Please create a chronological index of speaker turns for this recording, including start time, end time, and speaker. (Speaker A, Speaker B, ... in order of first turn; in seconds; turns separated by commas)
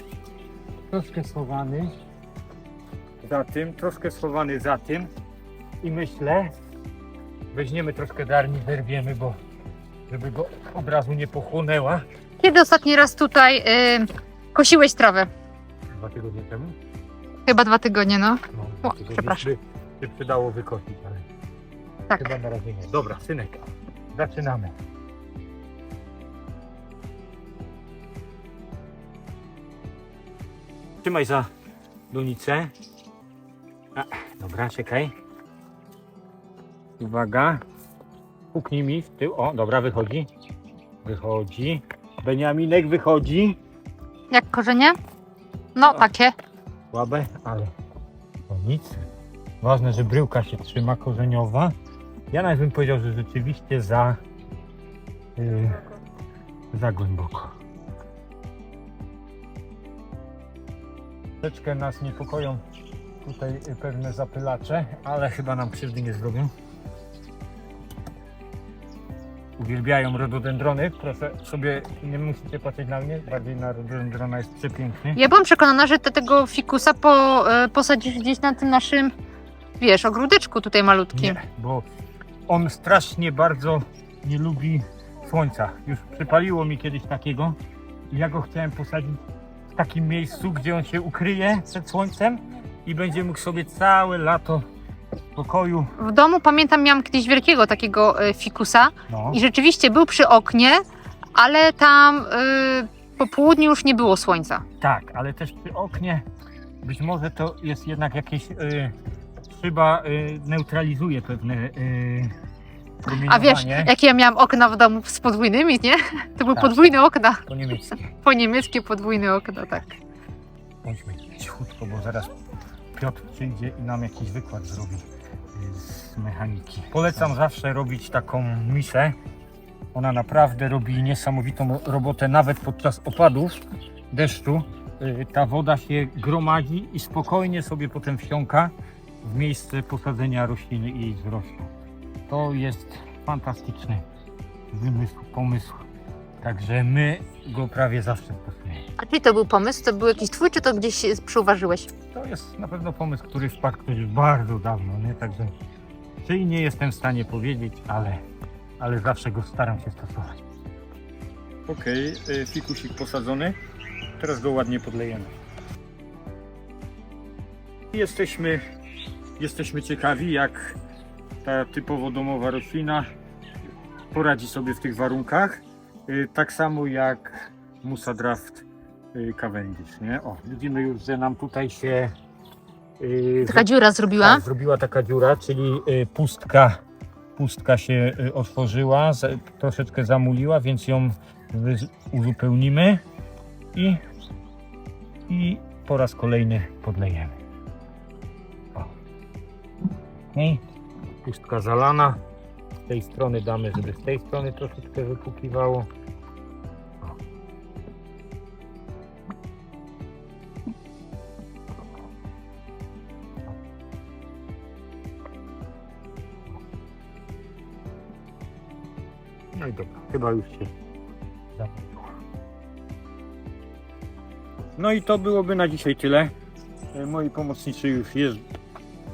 Speaker A: 0.9-1.9, Speaker A: 3.2-5.1, Speaker A: 5.8-6.5, Speaker A: 7.5-9.4, Speaker A: 10.1-12.0, Speaker B: 12.4-15.3, Speaker A: 15.9-16.7, Speaker B: 17.4-19.4, Speaker A: 18.5-21.2, Speaker A: 22.1-24.7, Speaker A: 31.0-31.5, Speaker A: 32.1-32.7, Speaker A: 33.9-35.1, Speaker A: 37.0-37.6, Speaker A: 38.5-40.3, Speaker A: 41.0-43.6, Speaker B: 44.3-45.0, Speaker B: 45.7-46.3, Speaker A: 46.9-47.7, Speaker A: 48.5-49.0, Speaker A: 49.6-51.7, Speaker A: 52.3-54.2, Speaker A: 55.4-55.8, Speaker A: 56.7-57.5, Speaker A: 61.4-62.6, Speaker A: 63.2-66.5, Speaker A: 69.6-75.2, Speaker B: 75.2-79.1, Speaker B: 79.8-81.4, Speaker A: 81.1-81.8, Speaker A: 82.5-87.6, Speaker A: 88.1-89.2, Speaker A: 89.7-94.7, Speaker A: 95.3-95.9, Speaker B: 96.0-100.8, Speaker A: 99.1-99.4, Speaker B: 101.3-104.6, Speaker A: 104.8-106.2, Speaker A: 106.8-108.9, Speaker A: 109.5-112.3, Speaker A: 113.0-113.9, Speaker B: 113.2-117.4, Speaker A: 116.5-118.1, Speaker B: 118.2-120.0, Speaker A: 120.8-122.3, Speaker A: 122.9-129.1, Speaker A: 129.9-141.7, Speaker A: 142.3-144.0, Speaker A: 144.7-145.8, Speaker A: 146.4-148.8, Speaker B: 149.0-151.9, Speaker A: 152.1-155.5, Speaker A: 156.2-158.2, Speaker A: 158.8-160.4, Speaker A: 161.7-163.6, Speaker A: 164.2-165.3, Speaker A: 167.9-168.6, Speaker A: 169.4-170.8, Speaker A: 171.4-173.1, Speaker A: 174.1-182.1, Speaker A: 183.0-183.7, Speaker B: 183.4-184.4, Speaker A: 184.2-186.8, Speaker A: 187.3-193.0, Speaker A: 193.7-194.0, Speaker A: 195.3-197.3, Speaker A: 200.3-200.6, Speaker A: 201.2-202.2, Speaker A: 202.9-205.9, Speaker A: 219.5-220.7, Speaker A: 221.6-222.0, Speaker A: 224.8-226.3, Speaker A: 226.9-228.4